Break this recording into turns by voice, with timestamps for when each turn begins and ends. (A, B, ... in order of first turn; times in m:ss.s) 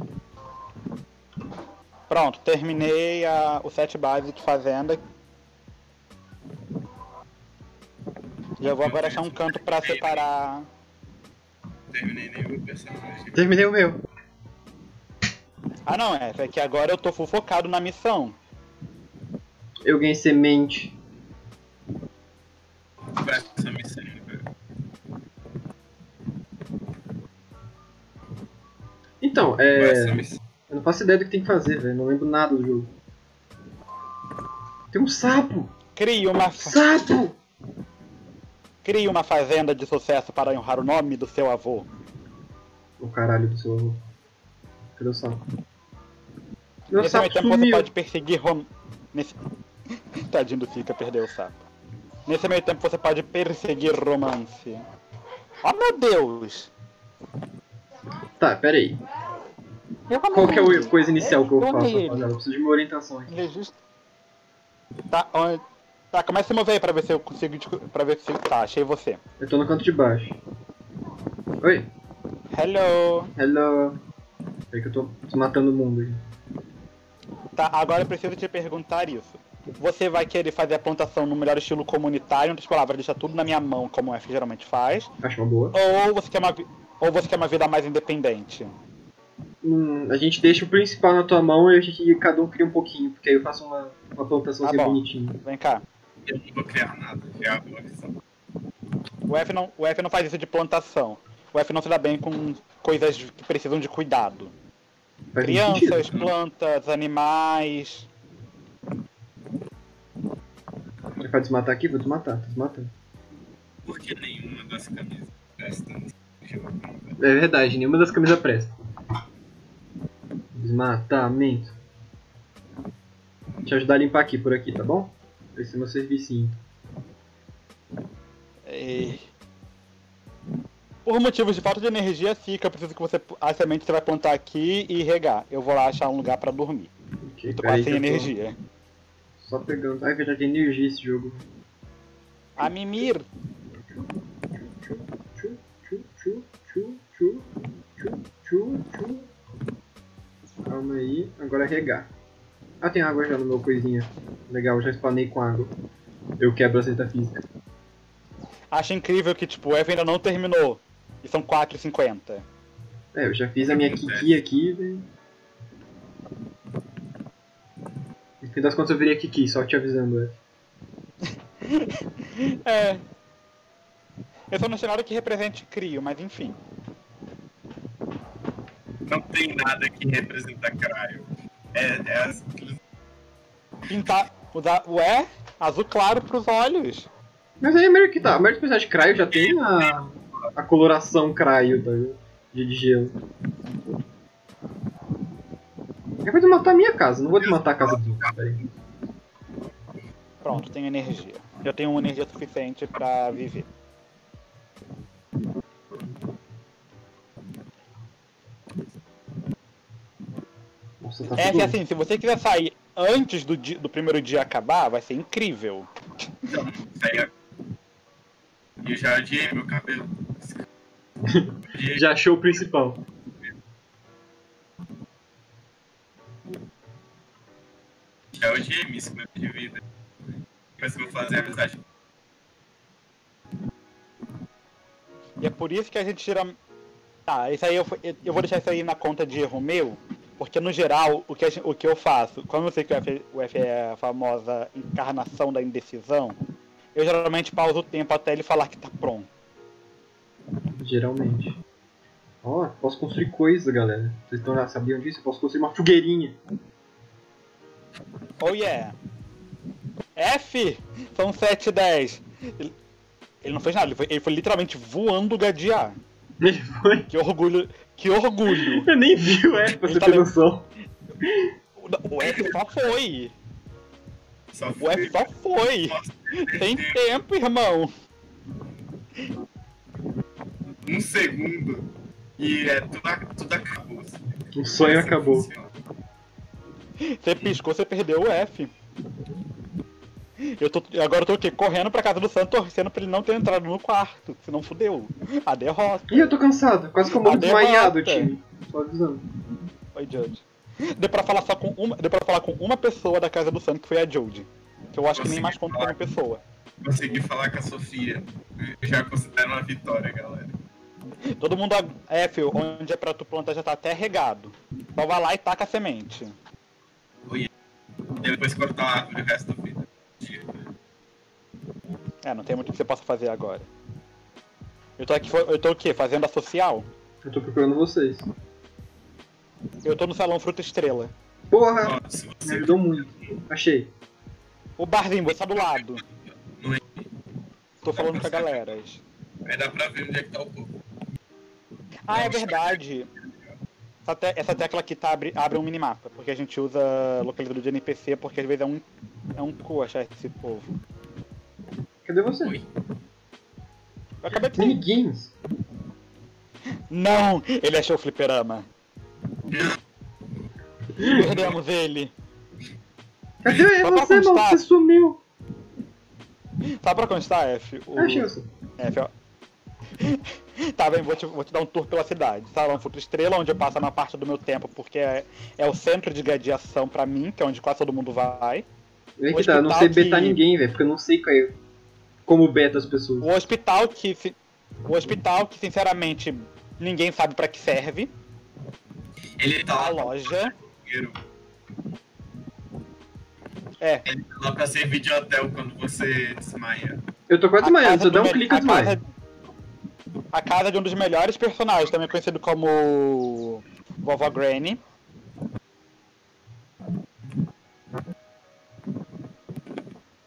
0:02.1-0:05.0 A
0:08.6-0:10.7 A
0:08.8-0:10.2 B
0:11.9-0:13.4 B
0:13.3-0:14.0 C
0:15.8-0:18.4 A
0:19.8-0:21.0 C
0:23.2-0:24.4 B
0:29.2-0:32.9 C
0:29.8-0:30.4 B
0:34.9-0:35.7 C
0:36.0-0:36.8 A
0:36.6-0:37.4 C
0:38.8-0:41.9 A
0:43.0-0:44.0 C
0:45.0-0:45.4 C
0:46.9-0:47.9 C
0:46.9-0:49.4 A
0:49.9-0:51.6 A
0:52.2-0:54.8 A
0:55.6-0:56.7 A
0:58.4-0:59.0 C
1:00.1-1:02.3 A
1:00.3-1:03.4 C
1:03.3-1:03.7 A
1:05.1-1:09.2 A
1:09.4-1:10.4 C
1:11.6-1:11.9 C
1:12.5-1:13.3 A
1:13.4-1:14.0 C
1:14.7-1:16.2 C
1:17.5-1:25.1 A
1:25.2-1:25.8 C
1:25.7-1:28.7 A
1:29.6-1:35.4 C
1:34.6-1:35.8 A
1:36.2-1:38.1 B
1:39.3-1:44.5 A
1:45.3-1:46.0 C
1:45.4-1:48.1 A
1:51.2-1:52.9 C
1:53.8-1:57.2 B
1:57.2-1:58.7 C
2:00.5-2:01.7 C
2:03.6-2:06.6 C
2:08.6-2:09.3 A
2:11.0-2:16.9 A
2:17.2-2:18.3 C
2:17.5-2:18.6 A
2:19.4-2:21.4 C
2:22.6-2:23.2 A
2:23.9-2:29.3 C
2:30.6-2:32.1 C
2:32.8-2:35.7 C
2:36.4-2:37.4 C
2:38.7-2:42.4 A
2:43.1-2:45.1 C
2:43.6-2:44.4 B
2:48.4-2:50.4 C
2:51.2-2:53.0 A
2:54.5-2:56.6 A
2:59.0-3:02.8 B
3:03.9-3:07.1 A
3:07.6-3:13.2 C
3:09.3-3:10.0 B
3:16.2-3:18.6 C
3:17.4-3:18.3 B
3:20.4-3:23.7 A
3:31.0-3:31.8 C
3:31.4-3:35.9 A
3:36.5-3:37.3 B
3:38.8-3:40.6 B
3:41.3-3:43.0 C
3:41.7-3:42.1 B
3:48.3-3:49.8 B
3:50.8-3:51.8 B
3:55.4-3:56.6 A
3:57.3-4:06.4 A
4:06.9-4:09.3 A
4:10.8-4:11.6 C
4:12.4-4:16.4 C
4:18.4-4:18.9 A
4:20.1-4:22.7 A
4:23.4-4:26.0 A
4:26.4-4:27.1 C
4:27.1-4:28.9 A
4:28.5-4:30.7 C
4:29.8-4:30.3 A
4:31.2-4:31.5 C
4:31.8-4:33.3 A
4:34.5-4:35.3 B
4:34.8-4:37.9 A
4:35.8-4:37.0 B
4:40.8-4:44.2 B
4:44.5-4:45.5 C
4:44.8-4:45.7 B
4:47.0-4:48.7 A
4:50.6-4:56.3 A
4:56.1-4:59.2 C
4:57.1-4:58.3 A
4:59.9-5:00.4 A
5:01.0-5:06.4 A
5:05.1-5:05.9 B
5:06.8-5:10.6 B
5:11.4-5:16.3 A
5:18.2-5:20.5 B
5:22.2-5:23.7 A
5:25.0-5:26.9 A
5:27.2-5:28.3 C
5:29.8-5:31.1 A
5:31.5-5:33.9 C
5:31.8-5:33.3 B
5:34.8-5:36.0 A
5:35.5-5:37.1 B
5:37.8-5:39.0 A
5:37.9-5:38.6 B
5:39.4-5:40.8 B
5:42.1-5:43.1 A
5:42.1-5:42.8 B
5:44.0-5:50.7 A
5:52.0-5:52.6 C
5:54.2-5:54.8 A
5:54.6-5:55.3 C
5:56.9-5:58.7 A
5:59.5-5:59.8 B
6:01.0-6:02.1 A
6:01.2-6:01.5 B
6:03.4-6:05.2 C
6:03.7-6:04.6 A
6:06.8-6:08.3 A
6:08.0-6:08.5 C
6:08.8-6:09.1 A
6:10.0-6:18.6 A
6:19.2-6:21.6 C
6:19.3-6:20.4 A
6:22.2-6:23.4 C
6:23.2-6:28.1 A
6:29.4-6:31.2 B
6:29.7-6:30.5 A
6:33.8-6:34.0 A
6:34.0-6:37.0 B
6:37.3-6:39.0 C
6:37.6-6:39.1 A
6:40.3-6:44.8 A